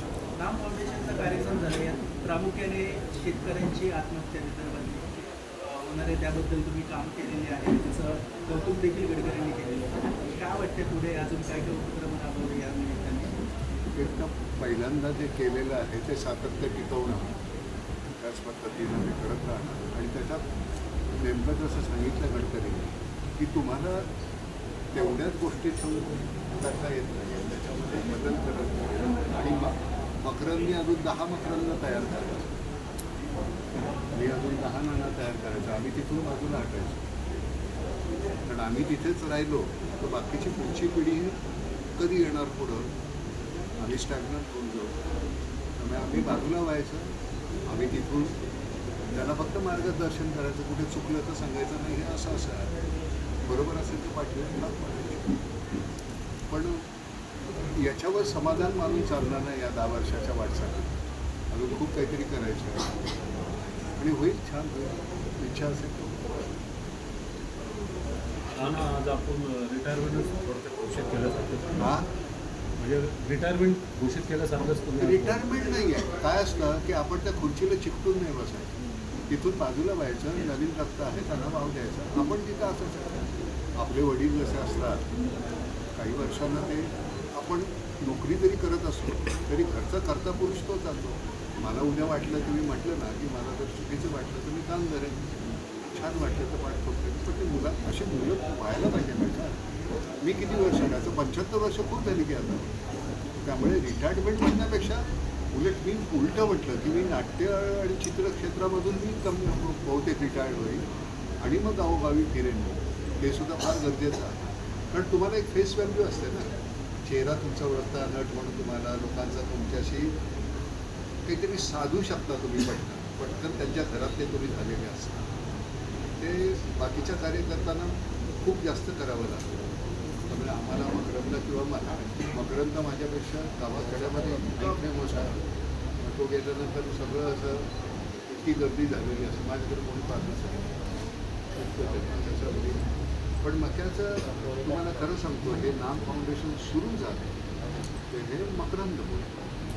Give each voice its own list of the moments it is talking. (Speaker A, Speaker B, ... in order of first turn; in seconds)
Speaker A: 0.3-13.4
Speaker B: 13.9-17.4, 18.2-20.4, 21.2-24.1, 24.9-32.6, 34.1-37.1, 38.5-41.4, 42.0-42.9, 43.8-45.0, 45.8-47.1, 47.7-48.4, 49.1-52.7, 53.4-55.4, 56.5-56.9, 57.8-61.0, 61.5-63.1, 64.0-66.4, 71.8-72.1, 75.0-78.7, 79.3-85.1, 86.0-95.3, 95.9-99.6, 100.2-102.7, 103.4-110.9, 111.4-114.4, 114.9-120.2, 121.3-125.3, 126.2-129.5, 130.3-135.4, 136.0-137.7, 138.3-140.9, 141.6-142.9, 143.4-147.4, 148.1-149.5
Speaker C: 68.5-71.9, 72.8-75.4